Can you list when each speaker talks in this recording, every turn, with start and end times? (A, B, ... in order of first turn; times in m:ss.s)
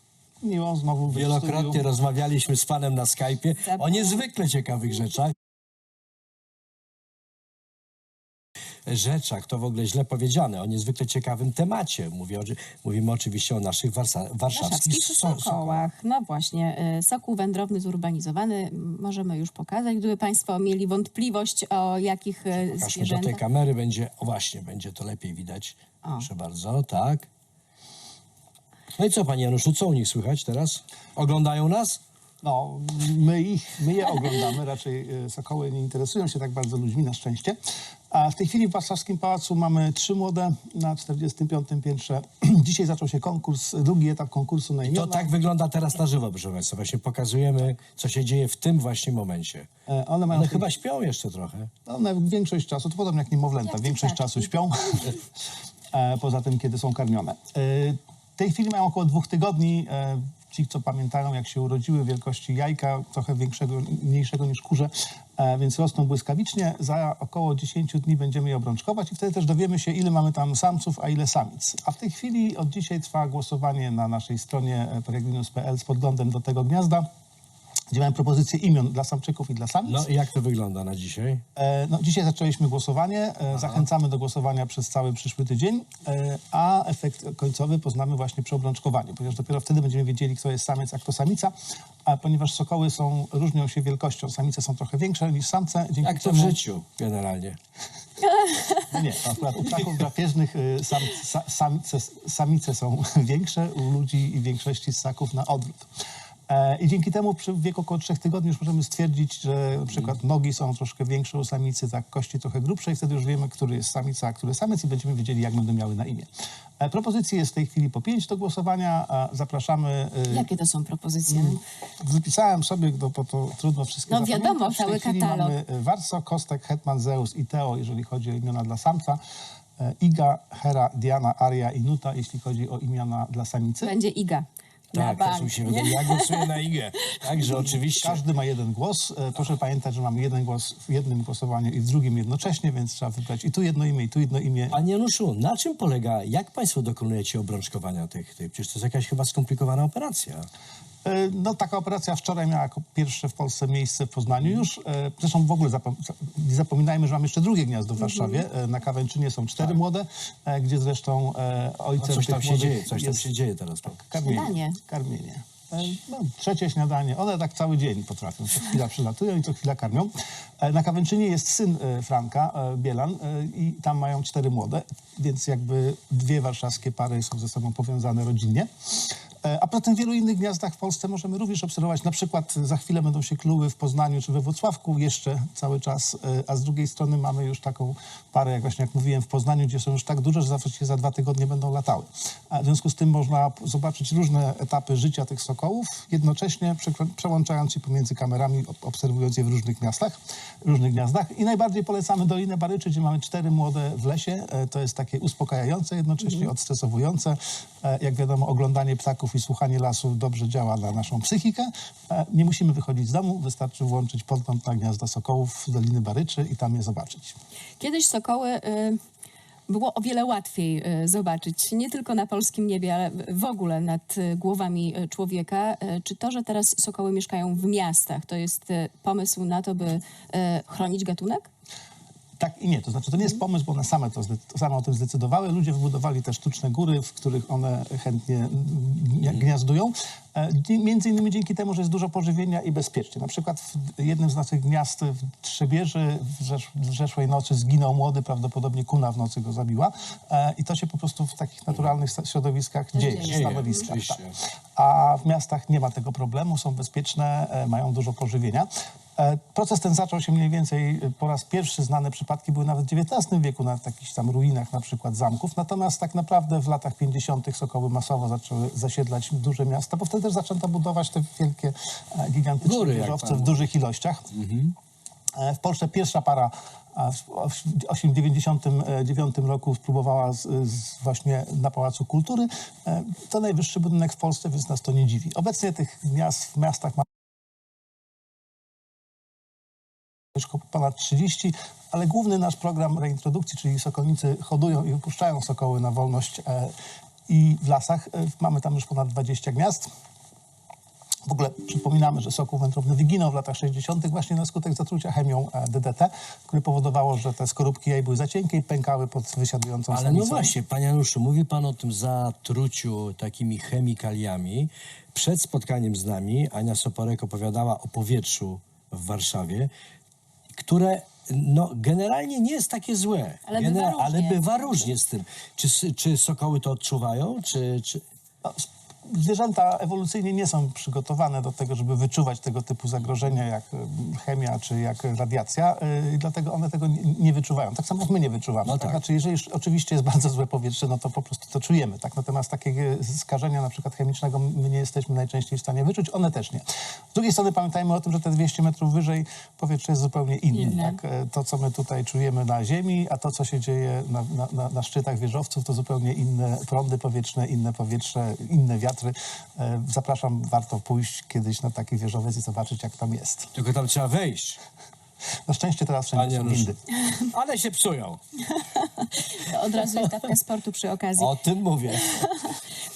0:00.4-0:01.8 A
0:01.1-0:05.3 B
0:03.6-0:04.2 C
0:08.9-0:15.9 B
0:14.5-0:23.4 C
0:22.6-0:27.3 B
0:29.0-0:32.0 B
0:32.4-0:37.6 A
0:38.1-0:45.3 A
0:44.8-0:49.7 B
0:49.9-0:50.7 A
0:50.3-0:51.7 B
0:51.9-0:55.2 A
0:53.7-0:54.5 C
0:55.9-1:17.1 A
1:17.9-1:20.1 A
1:19.8-1:21.4 B
1:21.6-1:31.5 A
1:23.5-1:23.9 B
1:32.1-1:36.6 A
1:36.0-1:37.6 B
1:38.2-1:39.0 C
1:38.9-1:45.9 A
1:46.5-1:56.3 A
1:56.8-2:00.5 A
2:00.3-2:01.6 C
2:01.3-2:09.2 A
2:04.1-2:05.6 C
2:09.8-2:14.0 A
2:13.8-2:17.2 C
2:14.9-2:18.2 B
2:17.4-2:24.8 A
2:24.7-2:30.5 B
2:31.0-2:43.2 A
2:38.1-2:38.4 C
2:42.0-2:44.0 B
2:44.0-3:37.3 A
2:44.2-2:44.8 C
3:37.8-3:39.0 C
3:39.7-3:51.5 C
3:52.4-4:14.2 A
4:12.9-4:13.9 C
4:13.2-4:14.4 B
4:14.8-4:34.3 A
4:32.6-4:33.6 B
4:34.3-4:34.8 B
4:35.4-4:47.0 A
4:50.4-4:56.7 A
4:57.3-4:59.9 A
5:01.3-5:10.6 A
5:09.9-5:19.7 B
5:20.6-5:28.0 B
5:23.5-5:24.9 C
5:28.4-6:03.5 A
5:38.6-5:39.0 B
5:50.5-5:51.0 C
6:03.6-6:04.6 B
6:05.5-6:06.8 A
6:06.1-6:08.2 B
6:08.4-6:11.3 C
6:11.2-6:12.3 B
6:11.9-6:12.6 C